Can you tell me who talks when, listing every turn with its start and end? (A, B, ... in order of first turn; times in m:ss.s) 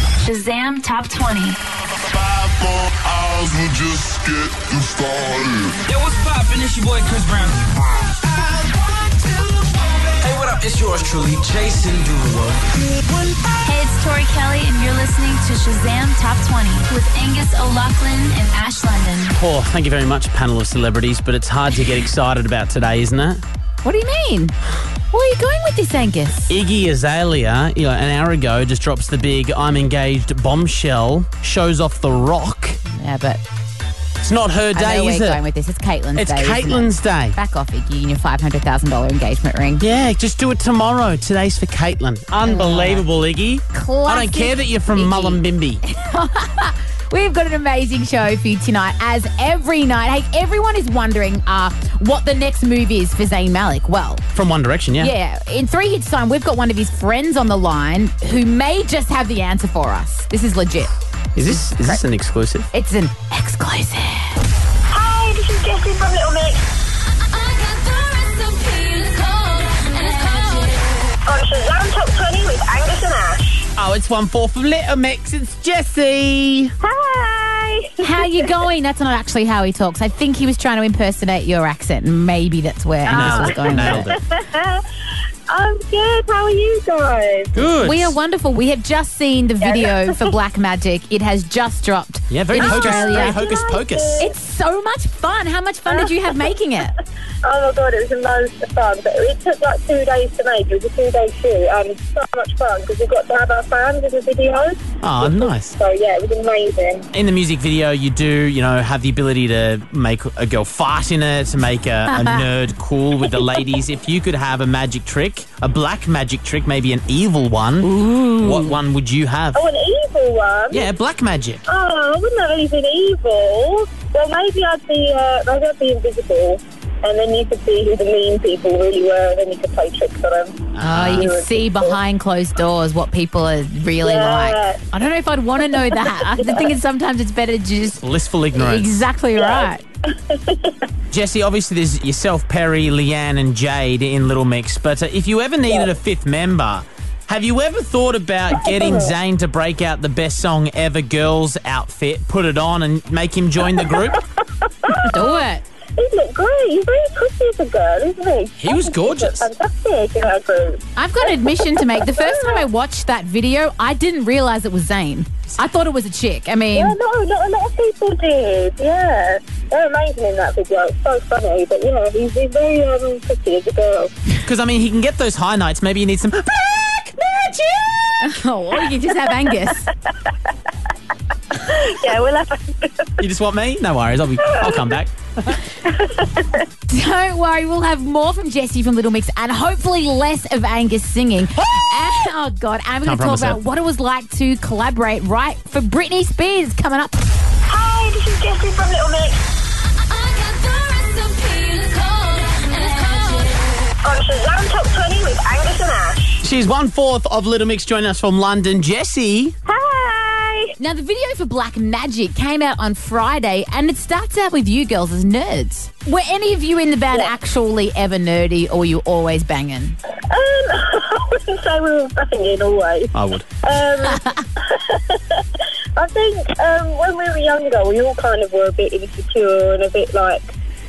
0:00.2-0:01.6 A
0:02.4-0:05.7 B
0:05.9-0:07.6 C
0:08.3-0:08.7 C
0:10.2-0:12.6 C
0:13.6-0:19.3 A
0:19.3-0:23.4 D
0:23.8-0:24.6 E
0:25.1-0:26.6 E
0:26.5-0:32.8 D
0:33.0-0:33.4 E
0:34.2-0:35.4 D
0:34.7-0:39.8 E
0:36.2-0:37.4 D
0:39.8-0:45.8 D
0:42.4-0:43.0 E
0:43.7-0:54.2 E
0:54.3-0:55.1 D
0:55.0-1:02.0 E
1:01.4-1:02.7 D
1:02.7-1:04.3 E
1:04.9-1:06.6 F
1:07.4-1:10.2 A
1:11.2-1:13.7 F
1:13.8-1:16.7 D
1:16.8-1:18.2 F
1:18.0-1:24.1 E
1:23.1-1:24.2 D
1:23.1-1:24.8 F
1:25.5-1:27.6 F
1:27.5-1:28.2 D
1:27.8-1:33.4 E
1:29.6-1:30.1 F
1:32.3-1:34.3 D
1:32.5-1:34.3 F
1:34.2-1:36.9 E
1:35.9-1:36.4 F
1:37.4-1:47.1 F
1:45.0-1:45.7 D
1:47.1-1:59.6 D
1:52.1-1:52.4 E
1:57.8-1:58.7 E
1:59.5-2:00.9 F
2:00.7-2:01.6 D
2:01.7-2:12.0 F
2:10.8-2:11.3 D
2:10.8-2:18.0 E
2:14.0-2:14.8 F
2:18.0-2:19.0 D
2:18.5-2:19.8 E
2:19.4-2:20.8 F
2:21.1-2:34.2 D
2:28.6-2:29.1 F
2:34.6-2:35.1 F
2:35.0-2:35.6 E
2:36.0-2:42.6 F
2:38.6-2:39.5 D
2:41.0-2:47.0 E
2:46.7-2:54.1 F
2:54.4-2:57.9 D
2:58.2-2:59.9 E
3:01.6-3:03.2 F
3:03.2-3:05.6 D
3:04.6-3:04.9 F
3:06.0-3:06.5 F
3:06.9-3:17.2 E
3:13.0-3:13.6 D
3:17.7-3:19.4 F
3:20.1-3:23.6 A
3:24.0-3:26.4 F
3:26.4-3:29.5 D
3:29.9-3:30.5 F
3:30.8-3:40.0 E
3:40.3-3:45.4 F
3:43.1-3:43.4 D
3:46.0-3:50.5 F